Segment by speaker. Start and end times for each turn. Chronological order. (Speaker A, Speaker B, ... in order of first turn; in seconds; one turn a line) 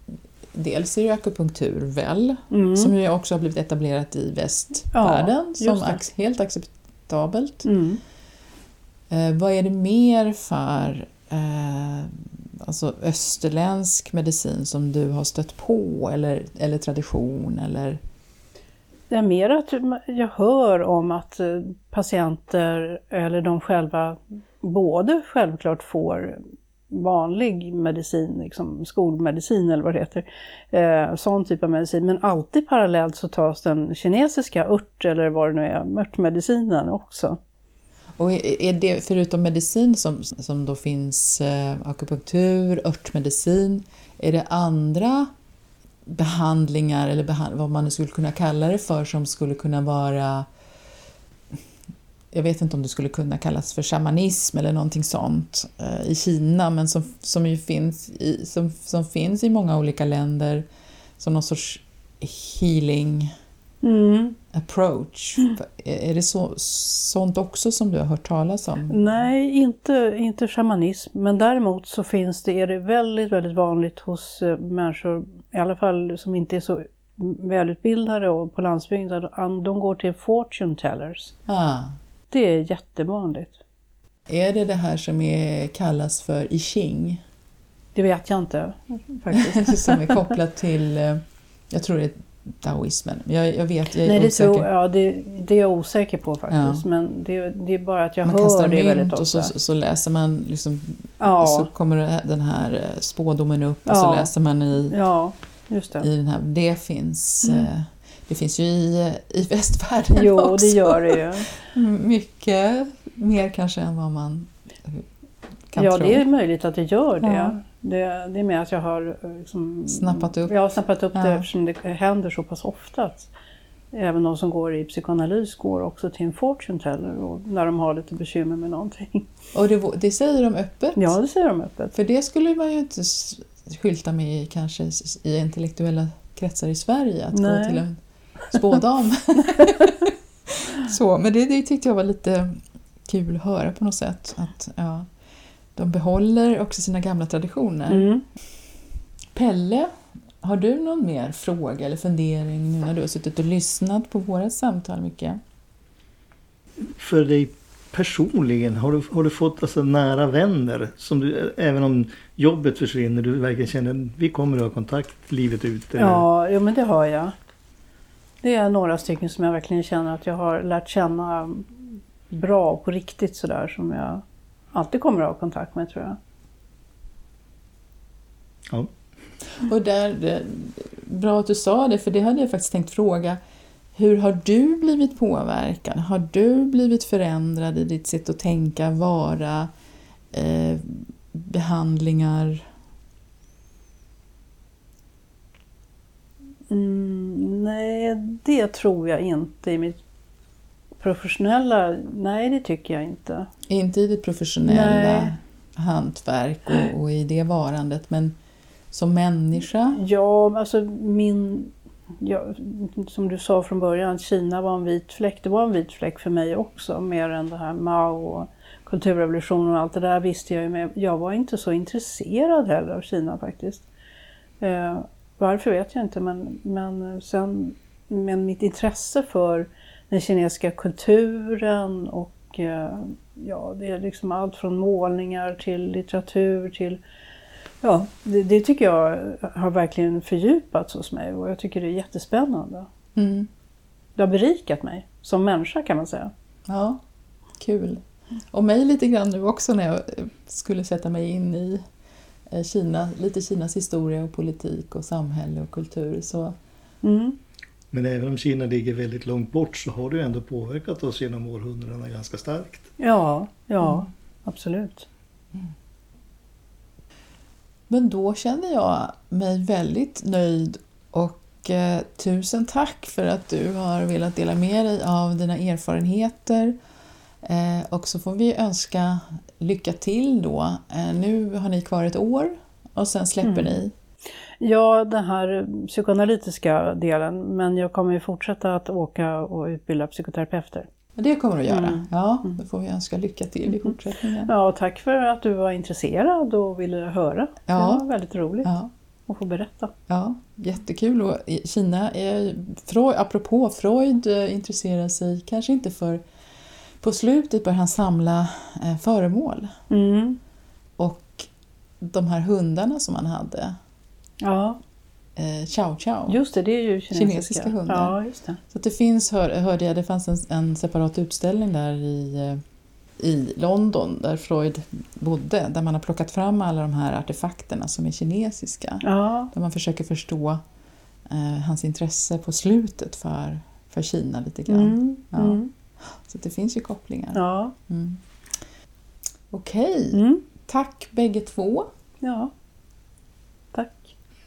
Speaker A: 0.5-7.7
Speaker B: 2.5-2.9
Speaker B: 4.9-6.0
Speaker B: 7.7-8.0
Speaker A: 9.1-18.0
Speaker B: 19.1-37.4
Speaker A: 38.2-45.3
Speaker A: 46.0-50.5
Speaker A: 52.3-60.6
Speaker A: 61.2-63.3
Speaker B: 63.8-64.4
Speaker A: 64.5-69.0
Speaker B: 68.9-81.3
Speaker A: 81.5-82.0
Speaker B: 82.3-83.6
Speaker A: 84.3-87.2
Speaker B: 87.9-90.3
Speaker A: 89.3-94.7
Speaker B: 94.0-99.5
Speaker A: 96.5-96.8
Speaker A: 98.2-105.0
Speaker B: 101.2-101.7
Speaker B: 103.8-104.3
Speaker B: 104.9-106.1
Speaker A: 106.0-115.0
Speaker B: 110.1-111.5
Speaker A: 115.7-116.2
Speaker B: 115.8-123.3
Speaker A: 117.2-117.5
Speaker A: 119.9-120.5
Speaker A: 121.1-121.4
Speaker B: 123.9-129.3
Speaker A: 129.5-131.2
Speaker B: 130.9-131.9
Speaker A: 131.9-145.1
Speaker B: 137.3-137.8
Speaker A: 145.7-148.1
Speaker B: 147.9-148.2
Speaker A: 149.3-149.9
Speaker A: 150.4-155.4
Speaker C: 156.8-166.2
Speaker B: 166.0-167.3
Speaker B: 168.4-176.2
Speaker A: 179.5-183.4
Speaker A: 183.9-189.7
Speaker A: 190.3-192.6
Speaker B: 196.7-200.0
Speaker B: 201.0-203.5
Speaker A: 203.7-208.3
Speaker B: 204.6-205.3
Speaker A: 208.9-210.0
Speaker B: 209.9-223.8
Speaker B: 224.6-237.0
Speaker B: 237.8-242.9
Speaker A: 243.2-243.5
Speaker B: 244.2-246.3
Speaker A: 246.7-247.0
Speaker A: 247.6-251.8
Speaker A: 252.5-256.6
Speaker B: 257.0-257.4
Speaker C: 257.9-262.9
Speaker B: 263.0-265.1
Speaker A: 267.9-276.8
Speaker A: 277.4-283.9
Speaker B: 283.4-283.8
Speaker B: 284.6-290.9
Speaker A: 291.1-294.5
Speaker B: 291.7-292.5
Speaker B: 294.4-298.7
Speaker A: 297.7-298.1
Speaker A: 298.6-298.9
Speaker B: 299.3-299.9
Speaker A: 300.1-306.2
Speaker A: 307.0-309.7
Speaker B: 309.9-310.4
Speaker A: 311.0-311.5
Speaker A: 312.0-313.8
Speaker B: 314.4-314.8
Speaker A: 315.4-316.4
Speaker B: 316.3-318.6
Speaker A: 317.1-318.1
Speaker A: 318.7-322.6
Speaker A: 323.2-330.6
Speaker B: 329.0-329.5
Speaker A: 331.3-338.2
Speaker B: 334.7-335.7
Speaker B: 337.3-337.7
Speaker A: 339.5-341.9
Speaker B: 340.1-340.4
Speaker B: 342.2-342.5
Speaker B: 343.7-344.1